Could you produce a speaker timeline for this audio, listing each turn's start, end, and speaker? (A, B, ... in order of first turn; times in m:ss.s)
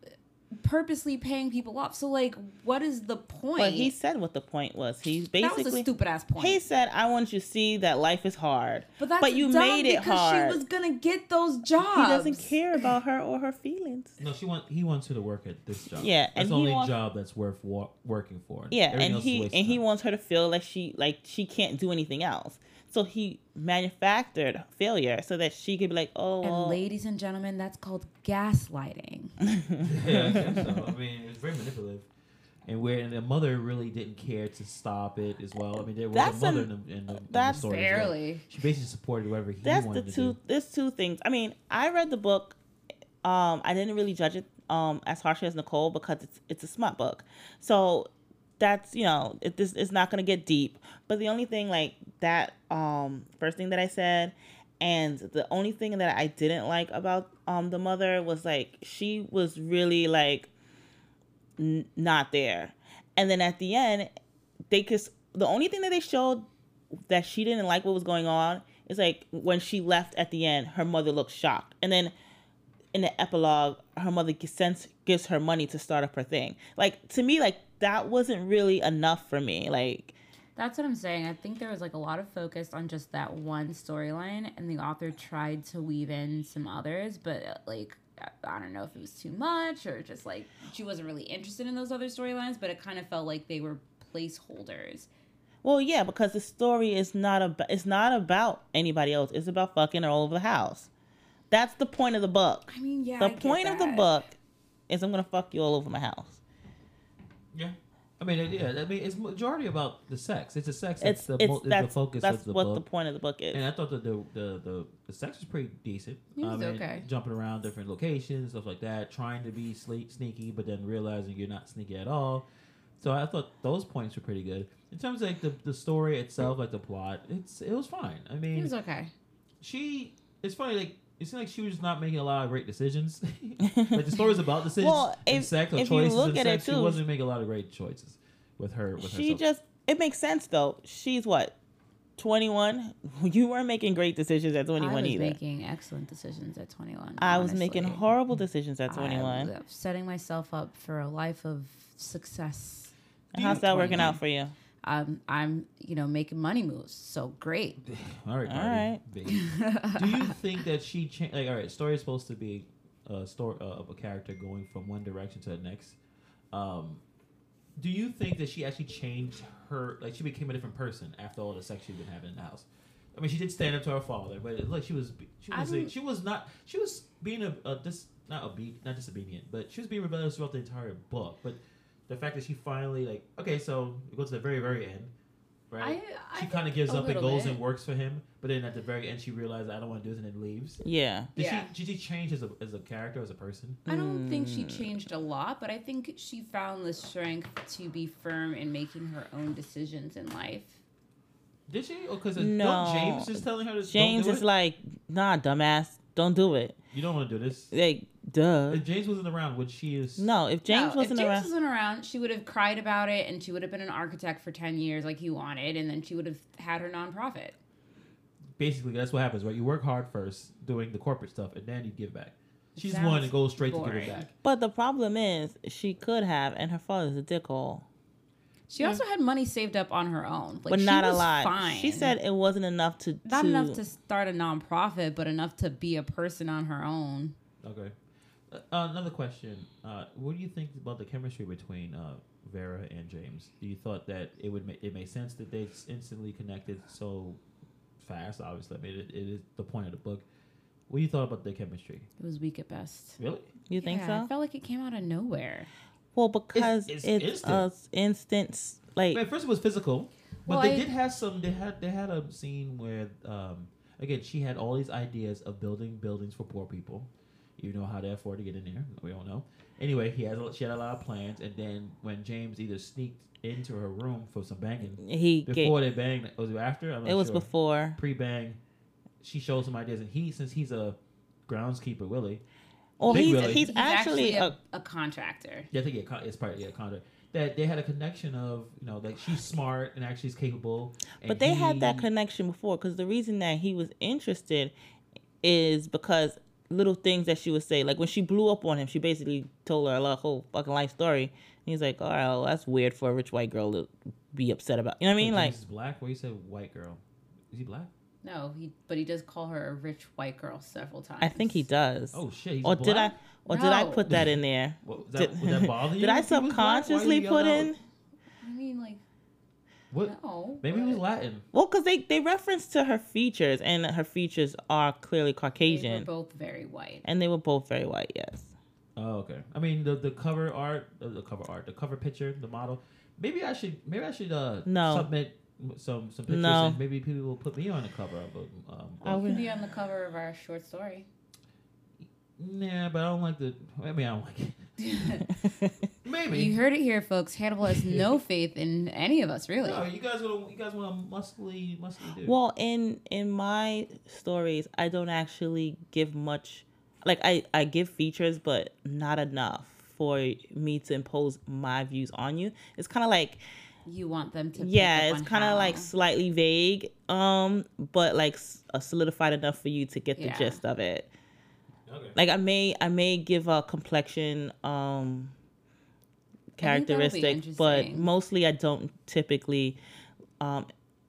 0:00.6-0:03.9 A
0:03.6-0:05.9 B
0:05.4-0:06.6 A
0:06.4-0:10.6 B
0:09.0-0:12.9 A
0:11.8-0:14.2 B
0:14.2-0:19.8 C
0:15.9-0:16.9 B
0:18.7-0:26.8 B
0:26.4-0:29.4 A
0:29.4-0:30.7 B
0:29.8-0:32.1 C
0:32.6-0:40.4 C
0:36.1-0:38.0 B
0:37.4-0:38.4 A
0:39.6-0:42.6 B
0:43.2-1:00.5 B
1:01.6-1:04.1 B
1:04.7-1:06.5 B
1:07.1-1:12.1 B
1:12.9-1:20.2 B
1:20.6-1:35.1 A
1:35.6-1:40.9 B
1:41.5-1:42.7 B
1:42.7-1:44.1 A
1:43.2-1:44.4 B
1:44.9-1:46.4 B
1:47.5-1:52.8 C
1:51.0-1:53.6 B
1:53.5-2:02.4 C
1:56.4-1:57.0 A
2:03.0-2:08.7 C
2:08.5-2:09.1 A
2:09.6-2:19.4 C
2:13.7-2:14.0 B
2:14.8-2:17.0 B
2:19.0-2:21.5 B
2:22.2-2:25.4 B
2:24.8-2:28.0 A
2:27.2-2:29.5 B
2:28.9-2:34.2 A
2:33.3-2:34.2 C
2:33.3-2:34.5 B
2:34.8-2:37.8 A
2:37.8-2:46.0 C
2:38.4-2:39.0 B
2:39.3-2:40.3 A
2:46.5-2:47.0 C
2:47.8-3:05.1 C
2:55.5-2:55.9 A
3:05.7-3:10.8 C
3:05.8-3:07.6 A
3:10.8-3:11.3 B
3:11.3-3:13.8 C
3:11.4-3:11.7 A
3:13.8-3:14.9 B
3:13.9-3:20.8 A
3:21.7-3:24.4 C
3:22.4-3:26.8 B
3:26.9-3:27.7 C
3:27.7-3:28.8 B
3:28.7-3:30.3 C
3:30.2-3:31.5 B
3:30.7-3:37.6 A
3:38.6-3:44.3 C
3:42.8-3:44.2 A
3:44.4-3:47.8 B
3:48.7-3:52.1 A
3:50.7-3:53.8 B
3:53.2-3:57.4 A
3:57.6-3:57.9 C
3:58.5-4:07.4 C
4:08.0-4:10.2 C
4:10.9-4:12.1 C
4:12.2-4:13.2 A
4:13.2-4:13.5 C
4:13.7-4:14.3 B
4:13.8-4:15.7 A
4:16.1-4:19.2 B
4:16.5-4:17.6 C
4:19.1-4:38.6 C
4:20.4-4:20.9 A
4:35.0-4:35.8 B
4:37.0-4:38.0 B
4:39.2-4:41.0 C
4:41.5-4:42.4 C
4:43.0-4:44.5 B
4:43.0-4:43.7 C
4:43.1-4:45.7 A
4:45.7-4:52.0 C
4:51.2-4:54.7 B
4:55.4-5:05.5 B
5:05.2-5:07.9 C
5:08.2-5:11.6 A
5:11.2-5:17.8 B
5:12.1-5:13.1 C
5:13.4-5:14.1 A
5:14.1-5:17.7 C
5:18.4-5:19.0 A
5:19.9-5:21.4 C
5:20.0-5:21.0 A
5:21.5-5:26.1 B
5:25.6-5:27.0 A
5:27.0-5:28.5 B
5:29.0-5:39.3 C
5:34.6-5:35.1 B
5:36.3-5:36.8 B
5:39.0-5:39.5 B
5:39.2-5:41.1 A
5:42.4-5:45.3 C
5:44.8-5:45.2 A
5:45.4-5:45.7 B
5:46.0-5:46.6 C
5:46.3-5:49.8 A
5:47.7-5:48.2 C
5:49.6-5:52.4 C
5:52.2-6:03.4 B
6:03.8-6:05.9 A
6:04.6-6:11.1 B
6:10.2-6:10.6 A
6:11.9-6:12.2 C
6:12.2-6:15.3 B
6:16.6-6:19.8 B
6:16.6-6:18.1 A
6:20.4-6:20.7 B